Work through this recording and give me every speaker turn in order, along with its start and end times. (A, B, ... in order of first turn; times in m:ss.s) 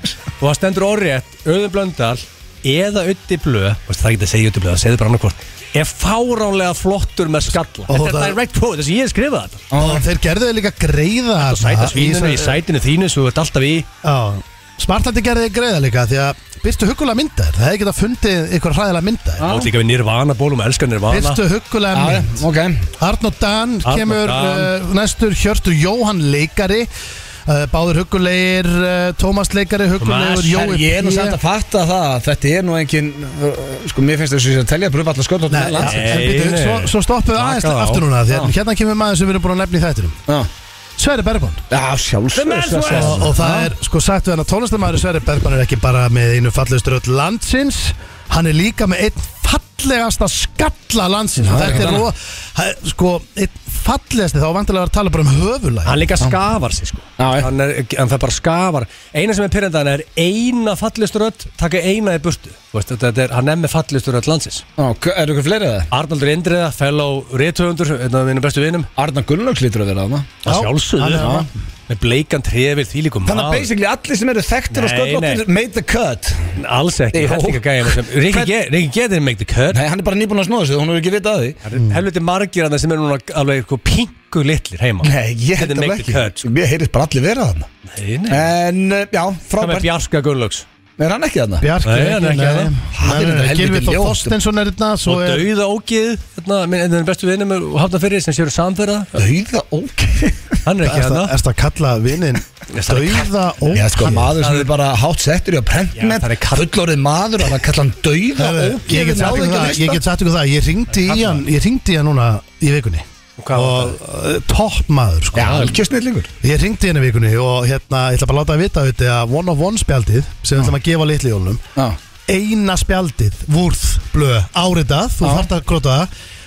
0:00.4-0:09.6 A
0:07.9-0:08.4 B
0:09.7-0:10.0 C
0:09.8-0:12.6 B
0:11.4-0:13.9 A
0:14.0-0:19.4 B
0:19.4-0:19.7 C
0:19.4-0:21.4 A
0:21.1-0:22.4 B
0:21.9-0:22.8 C
0:23.0-0:26.9 B
0:23.8-0:24.7 A
0:27.4-0:31.4 B
0:30.0-0:30.6 A
0:30.5-0:36.2 C
0:35.5-0:40.2 B
0:35.8-0:38.0 A
0:41.0-0:41.6 B
0:41.7-0:43.7 C
0:42.3-0:43.3 A
0:42.9-0:56.0 B
0:51.4-0:52.0 C
0:55.8-1:04.6 A
0:57.2-0:57.5 C
1:04.8-1:05.9 C
1:05.9-1:08.9 A
1:09.0-1:10.4 C
1:10.4-1:13.7 A
1:10.4-1:11.5 B
1:11.2-1:11.5 C
1:13.2-1:16.6 C
1:14.7-1:15.4 A
1:16.6-1:19.8 A
1:17.1-1:18.5 C
1:19.7-1:21.6 C
1:21.6-1:26.5 A
1:25.0-1:27.7 C
1:27.9-1:28.5 A
1:28.3-1:29.9 C
1:29.6-1:30.6 A
1:31.0-1:31.7 C
1:31.6-1:35.5 B
1:31.8-1:32.7 A
1:32.9-1:34.3 C
1:35.0-1:39.2 A
1:39.1-1:40.6 C
1:40.6-1:41.3 A
1:40.8-1:44.3 B
1:42.7-1:43.3 A
1:43.7-1:50.0 C
1:44.4-1:44.7 A
1:45.9-1:46.7 A
1:48.4-1:55.8 B
1:50.9-1:51.4 A
1:53.4-1:54.0 A
1:55.3-1:56.3 C
1:56.4-2:01.6 B
2:02.3-2:06.1 B
2:05.2-2:05.5 C